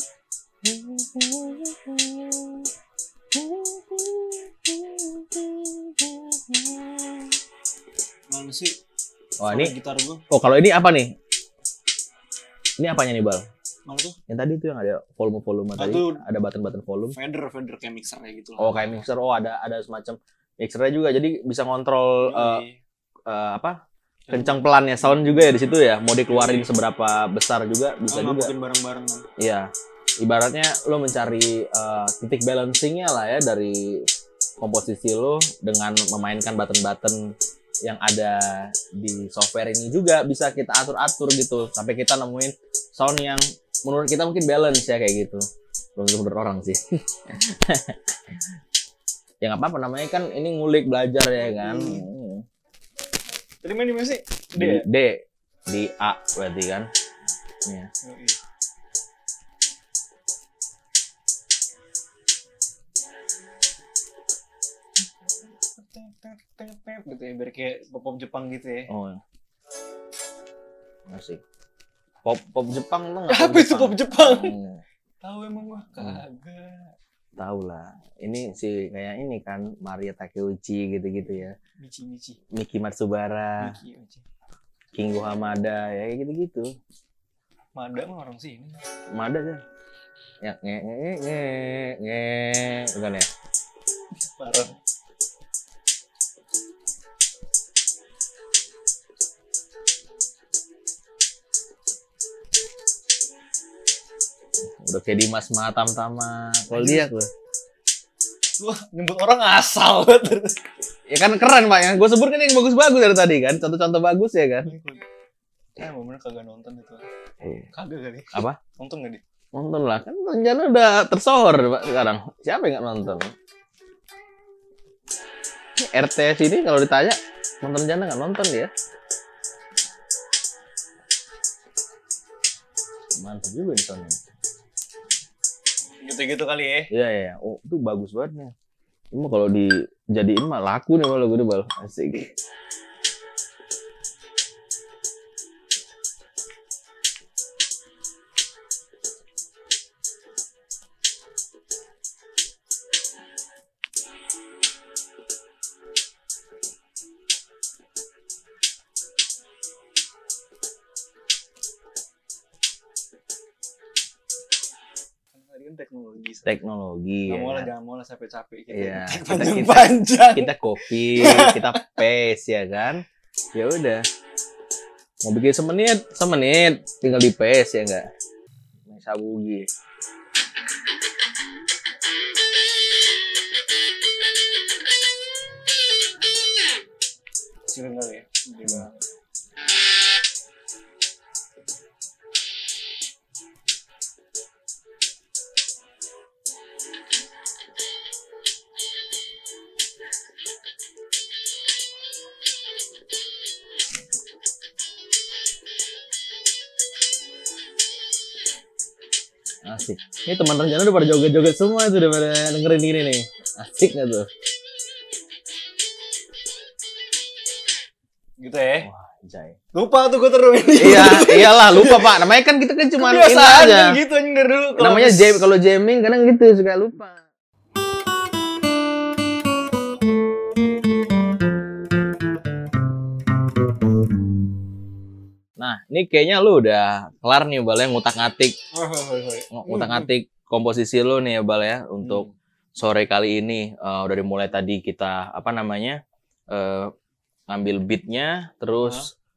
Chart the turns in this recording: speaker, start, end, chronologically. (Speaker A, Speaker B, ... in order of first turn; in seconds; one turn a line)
Speaker A: 0.6-2.6
Speaker A: 3.3-6.7
Speaker B: 8.3-8.8
Speaker A: 9.4-9.7
Speaker B: 9.4-10.2
Speaker A: 10.3-11.2
Speaker A: 12.8-13.5
Speaker B: 13.9-14.2
Speaker A: 14.3-17.2
Speaker B: 15.8-16.2
Speaker B: 17.1-19.0
Speaker A: 18.6-22.6
Speaker B: 22.2-22.8
Speaker A: 23.3-23.8
Speaker B: 24.3-25.6
Speaker A: 24.3-28.5
Speaker B: 26.3-26.7
Speaker B: 28.1-29.3
Speaker A: 29.4-34.1
Speaker A: 34.6-37.3
Speaker A: 37.8-48.4
Speaker A: 49.4-52.5
Speaker B: 51.4-52.0
Speaker B: 53.6-54.9
Speaker A: 54.6-56.9
Speaker B: 58.0-58.4
Speaker B: 65.7-68.9
Speaker A: 68.9-69.2
Speaker A: 71.1-71.4
Speaker A: 72.2-74.8
Speaker B: 73.3-74.6
Speaker B: 75.2-76.9
Speaker A: 77.4-81.5
Speaker B: 81.8-82.4
Speaker A: 82.5-83.8
Speaker B: 83.6-84.2
Speaker A: 84.9-86.7
Speaker B: 87.8-88.8
Speaker A: 89.1-89.6
Speaker A: 90.4-93.3
Speaker B: 94.3-94.8
Speaker A: 104.8-107.3
Speaker B: 106.7-107.1
Speaker B: 108.6-110.6
Speaker A: 111.1-114.7
Speaker B: 114.7-115.0
Speaker B: 115.8-117.0
Speaker B: 117.7-119.2
Speaker A: 118.3-118.6
Speaker A: 119.5-123.3
Speaker A: 125.8-128.7
Speaker A: 133.2-134.2
Speaker B: 136.0-136.9
Speaker A: 136.9-138.5
Speaker A: 139.1-142.3
Speaker B: 165.3-166.6
Speaker A: 166.4-167.7
Speaker B: 167.3-171.9
Speaker A: 168.7-173.0
Speaker A: 173.6-174.1
Speaker A: 175.2-178.1
Speaker A: 178.9-179.7
Speaker B: 187.7-189.0
Speaker A: 209.7-214.3
Speaker B: 218.4-218.9
Speaker A: 218.8-219.6
Speaker B: 219.7-222.2
Speaker A: 220.8-224.0
Speaker B: 223.0-225.4
Speaker A: 224.8-227.2
Speaker A: 235.6-238.6
Speaker B: 238.7-240.1
Speaker A: 239.5-242.3
Speaker B: 242.0-242.3
Speaker A: 242.8-246.9
Speaker A: 247.5-249.1
Speaker B: 248.8-249.1